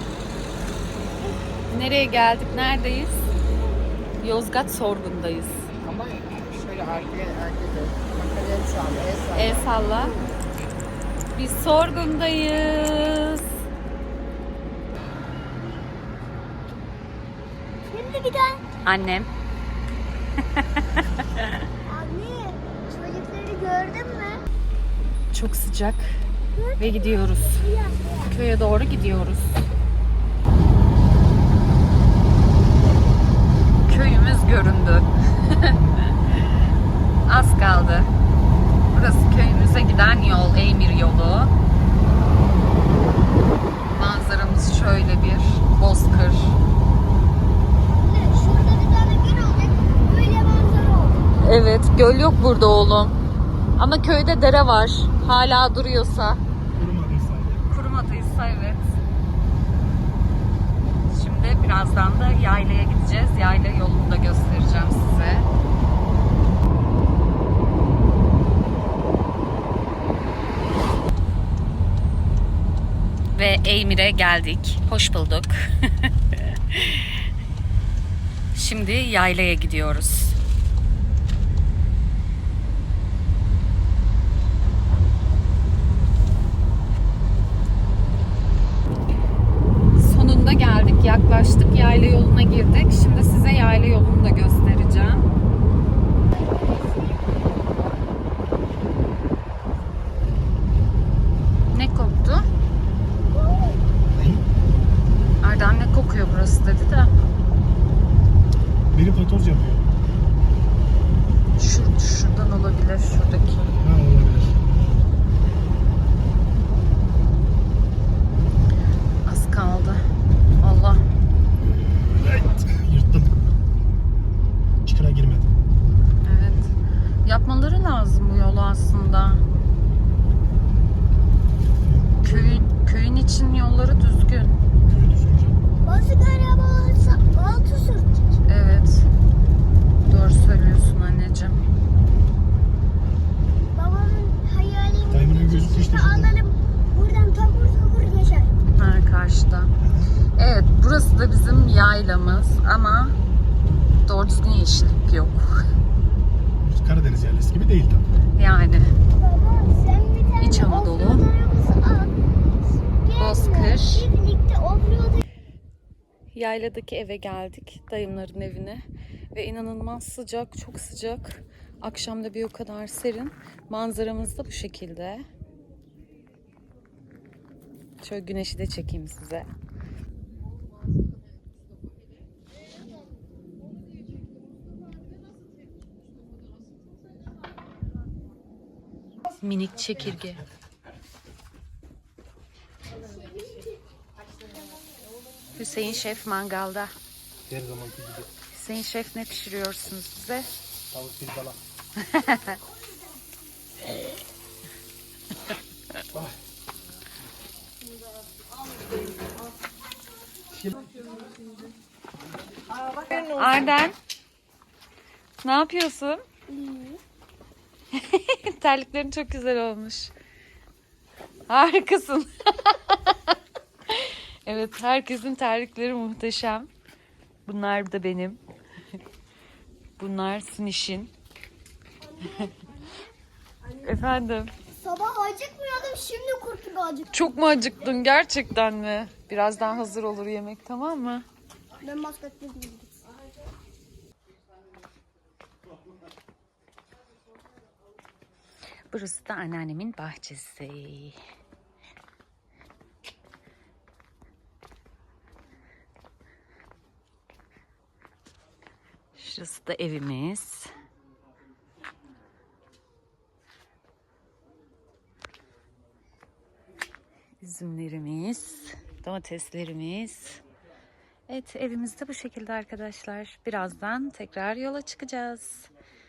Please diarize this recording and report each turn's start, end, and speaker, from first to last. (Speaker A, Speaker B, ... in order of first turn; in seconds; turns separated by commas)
Speaker A: 1.7-3.3, Speaker A: 4.2-5.7, Speaker B: 6.1-9.9, Speaker A: 9.3-10.1, Speaker A: 11.3-13.5, Speaker C: 17.9-18.6, Speaker A: 18.8-19.3, Speaker A: 20.6-21.4, Speaker C: 21.9-24.4, Speaker A: 25.3-26.2, Speaker C: 26.5-28.3, Speaker A: 26.8-27.6, Speaker A: 28.2-29.7, Speaker A: 33.9-35.9, Speaker A: 37.2-38.1, Speaker A: 38.9-41.5, Speaker A: 43.9-46.6, Speaker C: 47.9-51.2, Speaker A: 51.4-53.1, Speaker A: 53.8-56.4, Speaker D: 56.7-57.6, Speaker A: 57.7-58.9, Speaker A: 61.1-65.5, Speaker A: 73.3-77.0, Speaker A: 78.5-80.4, Speaker A: 90.0-95.3, Speaker C: 96.3-97.6, Speaker A: 101.7-102.5, Speaker C: 103.3-103.8, Speaker D: 104.1-104.4, Speaker A: 105.4-107.1, Speaker D: 108.9-109.9, Speaker A: 111.6-113.7, Speaker D: 113.8-114.7, Speaker A: 119.2-120.0, Speaker A: 120.6-121.0, Speaker D: 122.2-123.5, Speaker D: 124.8-125.5, Speaker A: 126.2-126.7, Speaker A: 127.2-129.4, Speaker D: 131.8-132.1, Speaker A: 132.2-134.6, Speaker C: 132.2-132.6, Speaker D: 134.9-135.6, Speaker C: 135.8-138.2, Speaker A: 138.4-139.1, Speaker A: 140.0-141.6, Speaker C: 143.7-148.5, Speaker D: 145.1-146.3, Speaker A: 148.8-149.7, Speaker D: 149.8-150.1, Speaker A: 150.4-153.2, Speaker A: 154.1-155.6, Speaker D: 156.6-158.1, Speaker A: 158.3-158.9, Speaker C: 159.1-162.2, Speaker A: 160.4-161.2, Speaker C: 163.0-165.2, Speaker A: 163.2-164.1, Speaker A: 166.3-175.2, Speaker A: 178.0-179.5, Speaker A: 189.4-190.4, Speaker C: 193.0-193.8, Speaker A: 195.5-196.9, Speaker D: 197.5-198.3, Speaker A: 198.5-200.5, Speaker D: 200.9-201.6, Speaker A: 202.0-202.6, Speaker A: 213.1-213.9, Speaker A: 215.4-216.2, Speaker C: 216.5-217.0, Speaker A: 217.9-220.1, Speaker A: 221.5-223.3, Speaker A: 223.9-226.7, Speaker A: 227.4-228.4, Speaker A: 230.0-231.1, Speaker A: 232.2-232.5, Speaker A: 233.8-234.5, Speaker C: 234.8-237.1, Speaker A: 237.1-241.2, Speaker C: 241.8-243.0, Speaker A: 248.9-251.2, Speaker A: 259.1-260.7, Speaker A: 267.4-270.4, Speaker A: 271.3-275.7